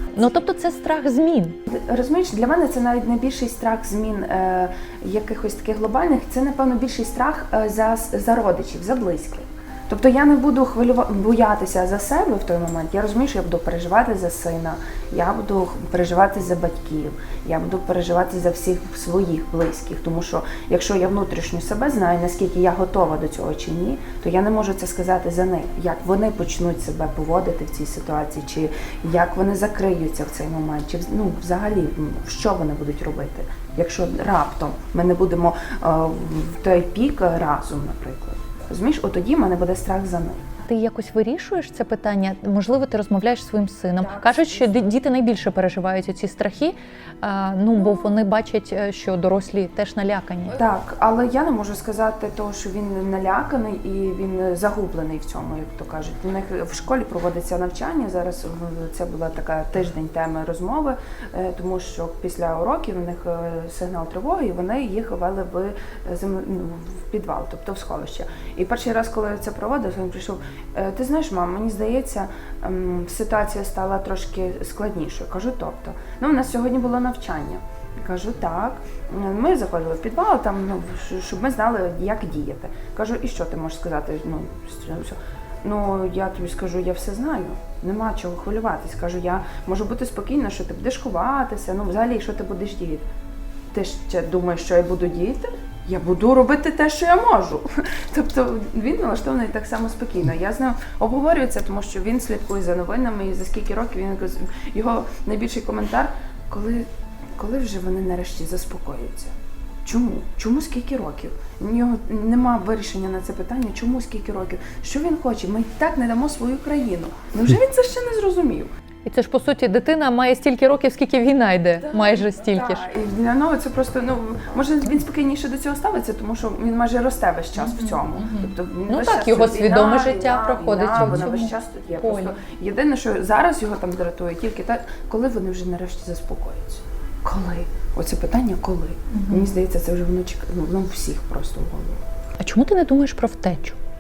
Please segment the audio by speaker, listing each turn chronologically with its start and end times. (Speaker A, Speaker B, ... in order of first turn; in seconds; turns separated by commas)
Speaker A: 0.1-1.6, Speaker B: 1.7-40.4, Speaker A: 40.7-50.6, Speaker B: 44.0-44.6, Speaker B: 50.5-93.0, Speaker B: 93.7-109.3, Speaker B: 109.8-118.7, Speaker A: 119.0-122.8, Speaker B: 121.9-142.0, Speaker A: 127.6-132.3, Speaker A: 139.1-139.5, Speaker A: 142.4-143.8